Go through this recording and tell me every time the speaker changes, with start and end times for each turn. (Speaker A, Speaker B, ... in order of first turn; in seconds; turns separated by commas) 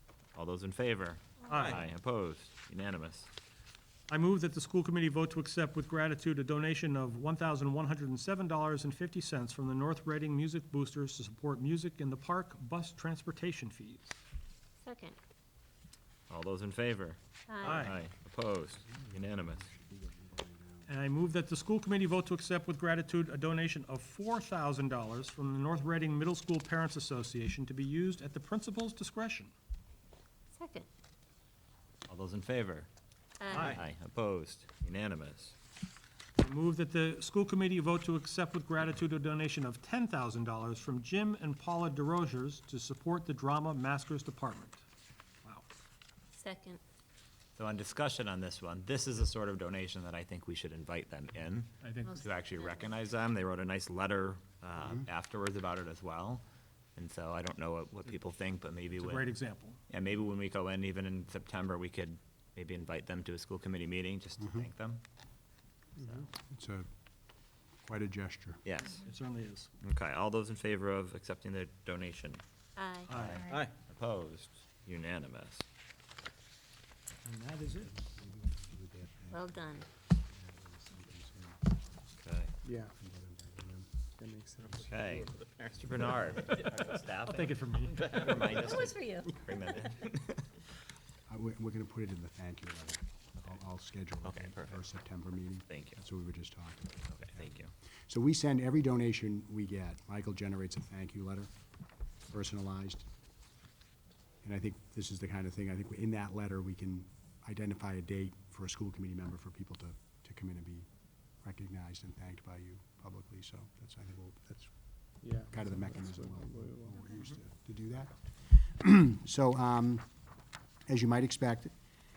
Speaker A: 0.3-3.3, Speaker B: 1.5-1.8, Speaker B: 4.1-14.2, Speaker C: 14.8-15.2, Speaker A: 16.3-19.6, Speaker C: 17.5-17.9, Speaker B: 17.6-18.0, Speaker D: 18.7-20.9, Speaker B: 20.9-29.5, Speaker C: 30.6-30.9, Speaker A: 32.1-32.9, Speaker C: 33.4-33.8, Speaker B: 33.5-33.8, Speaker A: 33.6-35.5, Speaker B: 36.4-44.8, Speaker C: 46.3-46.8, Speaker A: 47.6-56.4, Speaker B: 51.8-52.3, Speaker C: 52.0-52.8, Speaker A: 57.0-59.4, Speaker B: 58.9-59.8, Speaker A: 59.9-65.0, Speaker D: 64.4-64.7, Speaker A: 66.0-66.3, Speaker D: 66.1-66.9, Speaker D: 67.8-68.6, Speaker A: 68.6-69.0, Speaker B: 69.0-69.7, Speaker A: 69.8-72.4, Speaker C: 72.8-73.1, Speaker B: 73.1-73.4, Speaker A: 73.1-75.6, Speaker B: 77.2-77.9, Speaker D: 77.7-81.8, Speaker C: 79.3-79.9, Speaker A: 82.2-82.5, Speaker E: 82.6-82.9, Speaker D: 82.8-84.0, Speaker E: 84.2-84.9, Speaker D: 84.8-85.0, Speaker A: 84.9-90.4, Speaker B: 87.2-88.2, Speaker C: 88.5-89.4, Speaker D: 91.3-101.5, Speaker A: 94.2-94.8, Speaker A: 95.7-96.0, Speaker A: 97.1-97.7, Speaker D: 102.3-103.1, Speaker D: 104.4-120.1, Speaker E: 115.2-117.0, Speaker D: 120.9-121.7